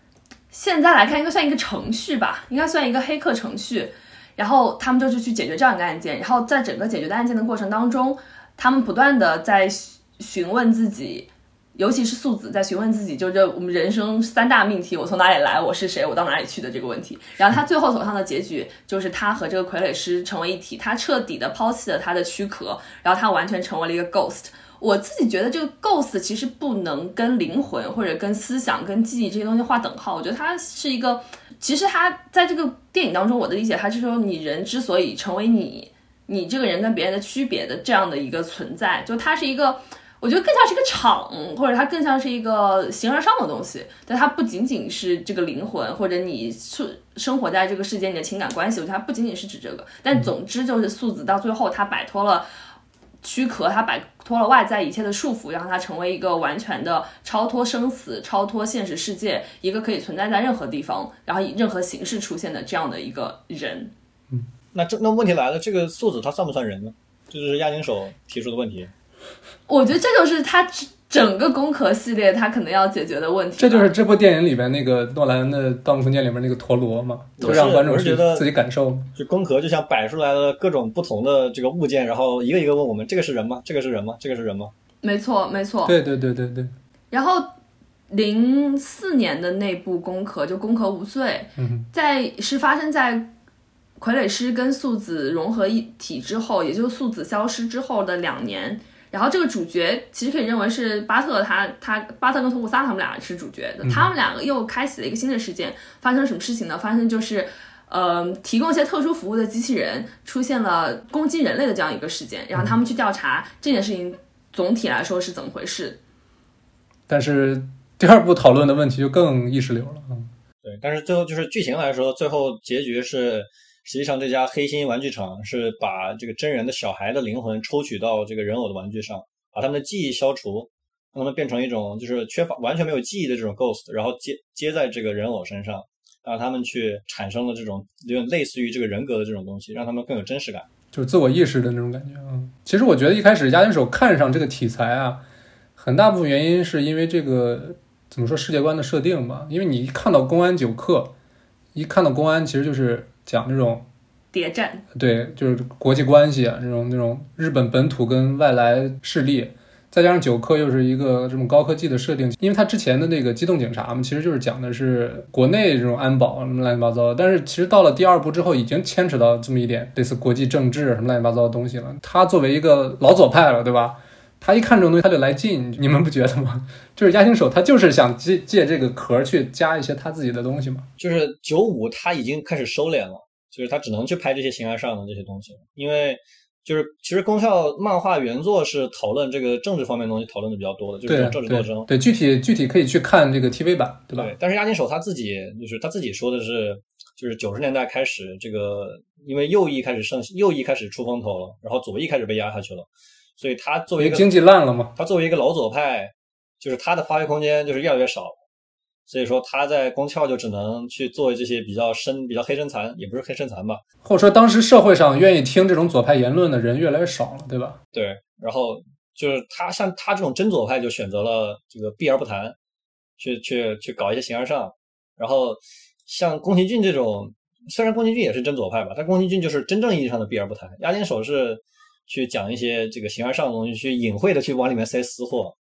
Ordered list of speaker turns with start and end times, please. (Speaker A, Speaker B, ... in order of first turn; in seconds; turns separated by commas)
Speaker A: 0.5-52.5, Speaker A: 53.2-63.9, Speaker B: 64.7-68.9, Speaker A: 69.7-73.9, Speaker C: 73.6-79.1, Speaker B: 77.4-78.5, Speaker B: 79.1-84.7, Speaker A: 85.0-85.9, Speaker C: 85.8-86.7, Speaker A: 87.1-87.5, Speaker A: 88.1-93.3, Speaker C: 91.6-91.9, Speaker A: 94.0-116.0, Speaker C: 103.8-104.1, Speaker C: 117.1-120.3, Speaker B: 120.6-140.7, Speaker C: 140.9-145.2, Speaker C: 145.8-151.1, Speaker C: 151.7-153.8, Speaker A: 154.3-154.8, Speaker C: 154.9-180.9, Speaker B: 181.0-191.9, Speaker C: 191.1-194.3, Speaker B: 194.2-202.9, Speaker B: 203.4-204.3, Speaker C: 204.0-204.9, Speaker B: 204.9-208.4, Speaker B: 209.1-213.8, Speaker C: 214.0-217.8, Speaker B: 217.9-222.6, Speaker B: 223.2-235.5